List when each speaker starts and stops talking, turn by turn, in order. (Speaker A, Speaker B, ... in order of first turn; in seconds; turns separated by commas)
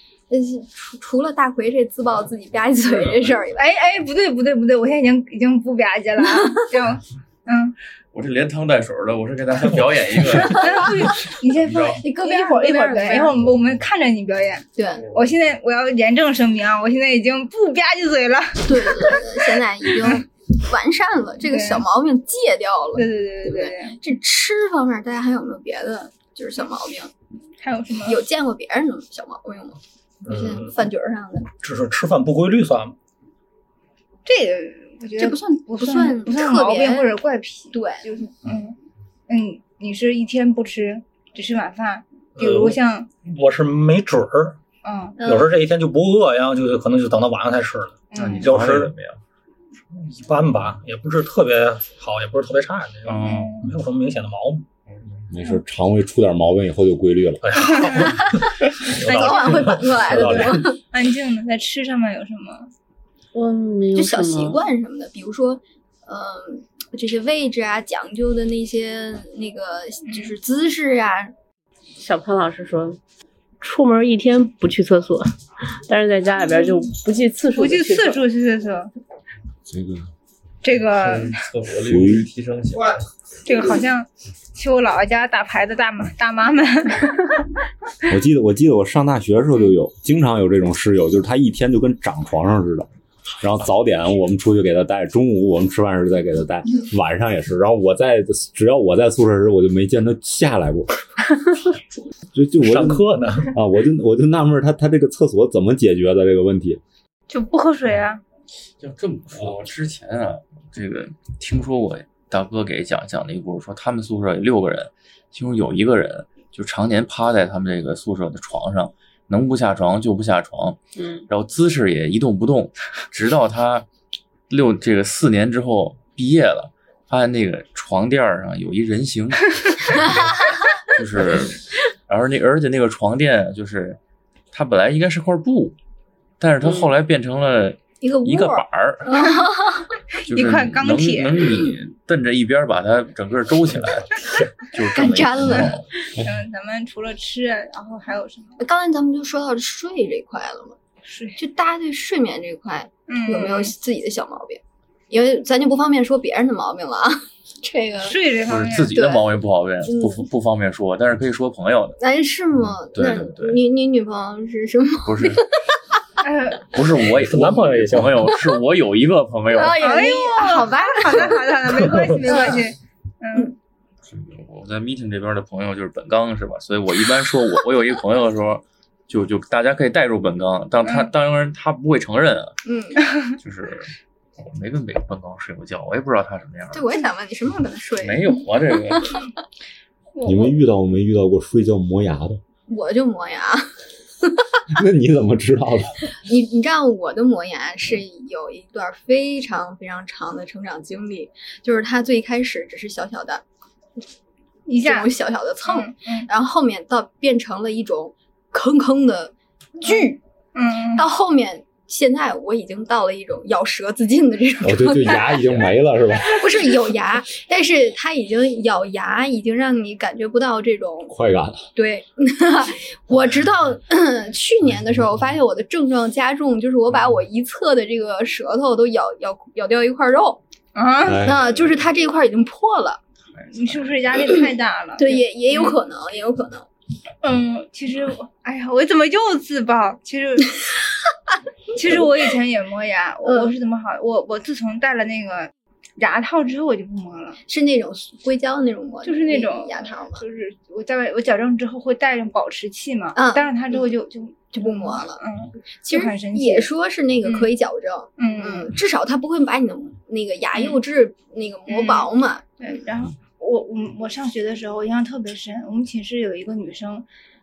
Speaker A: 0.3-3.7, Speaker B: 2.8-3.5, Speaker C: 3.6-7.7, Speaker B: 8.1-12.0, Speaker C: 10.4-20.2, Speaker A: 10.5-11.1, Speaker A: 12.0-13.4, Speaker A: 14.8-15.1, Speaker A: 18.6-27.1, Speaker C: 21.4-21.8, Speaker C: 22.9-24.0, Speaker C: 27.6-28.2, Speaker A: 28.0-31.5, Speaker D: 30.2-30.8, Speaker D: 31.6-32.9, Speaker C: 34.2-38.8, Speaker A: 35.2-37.1, Speaker A: 37.7-38.0, Speaker C: 39.3-43.1, Speaker D: 42.4-44.6, Speaker C: 44.8-45.2, Speaker A: 45.2-45.5, Speaker D: 45.2-49.0, Speaker C: 48.1-48.6, Speaker B: 48.1-49.2, Speaker D: 49.9-54.6, Speaker B: 53.0-53.6, Speaker C: 53.2-53.7, Speaker B: 54.9-55.2, Speaker E: 55.3-58.0, Speaker D: 57.4-60.7, Speaker A: 58.0-60.8, Speaker C: 59.0-59.8, Speaker C: 60.7-62.7, Speaker F: 63.3-64.6, Speaker A: 63.9-71.3, Speaker C: 70.1-70.3, Speaker F: 72.0-73.0, Speaker F: 73.6-75.3, Speaker F: 75.8-78.2, Speaker C: 77.5-78.9, Speaker E: 79.7-80.1, Speaker C: 80.6-81.4, Speaker B: 81.0-83.0, Speaker E: 81.8-82.3, Speaker C: 83.4-87.5, Speaker E: 88.1-92.9, Speaker E: 93.4-100.9, Speaker E: 102.3-106.8, Speaker D: 102.6-103.5, Speaker C: 107.3-108.2, Speaker B: 108.8-120.8, Speaker F: 121.0-121.2, Speaker B: 121.3-123.8, Speaker B: 124.5-134.0, Speaker B: 134.5-135.8, Speaker B: 136.4-139.2, Speaker A: 138.0-139.9, Speaker C: 139.2-139.5, Speaker B: 140.3-145.8, Speaker C: 140.3-141.6, Speaker A: 144.9-145.7, Speaker C: 146.2-148.6, Speaker A: 148.6-150.8, Speaker C: 151.0-151.4, Speaker A: 151.4-158.2, Speaker C: 153.1-153.7, Speaker C: 158.0-158.9, Speaker B: 158.5-162.0, Speaker A: 158.9-159.3, Speaker A: 159.8-160.2, Speaker A: 162.0-165.7, Speaker B: 162.6-163.6, Speaker B: 165.0-165.4, Speaker C: 166.2-166.7, Speaker B: 166.7-169.8, Speaker D: 167.2-168.4, Speaker A: 169.5-171.5, Speaker C: 169.7-173.5, Speaker D: 171.7-172.2, Speaker A: 172.2-172.6, Speaker B: 174.1-182.6, Speaker A: 182.6-183.1, Speaker B: 183.4-186.8, Speaker A: 186.7-189.2, Speaker B: 188.0-189.2, Speaker C: 190.1-190.6, Speaker E: 190.2-192.4, Speaker A: 192.7-194.6, Speaker E: 194.7-196.0, Speaker A: 196.2-203.4, Speaker C: 204.7-205.1, Speaker A: 204.8-210.2, Speaker C: 205.6-206.3, Speaker C: 209.8-211.1, Speaker A: 210.9-215.6, Speaker E: 214.6-216.5, Speaker A: 216.3-221.1, Speaker E: 221.1-221.6, Speaker A: 221.7-230.4, Speaker C: 230.7-231.3, Speaker E: 231.0-231.6, Speaker A: 231.2-233.0, Speaker B: 233.3-234.0, Speaker C: 233.5-235.8, Speaker A: 235.0-236.7, Speaker C: 237.2-240.6, Speaker C: 241.7-247.4, Speaker A: 243.2-243.5, Speaker A: 247.5-250.2, Speaker C: 249.0-256.7, Speaker A: 253.1-253.9, Speaker A: 254.5-255.2, Speaker A: 255.8-262.8, Speaker C: 257.2-257.5, Speaker C: 258.2-258.7, Speaker C: 261.7-262.1, Speaker C: 262.6-267.1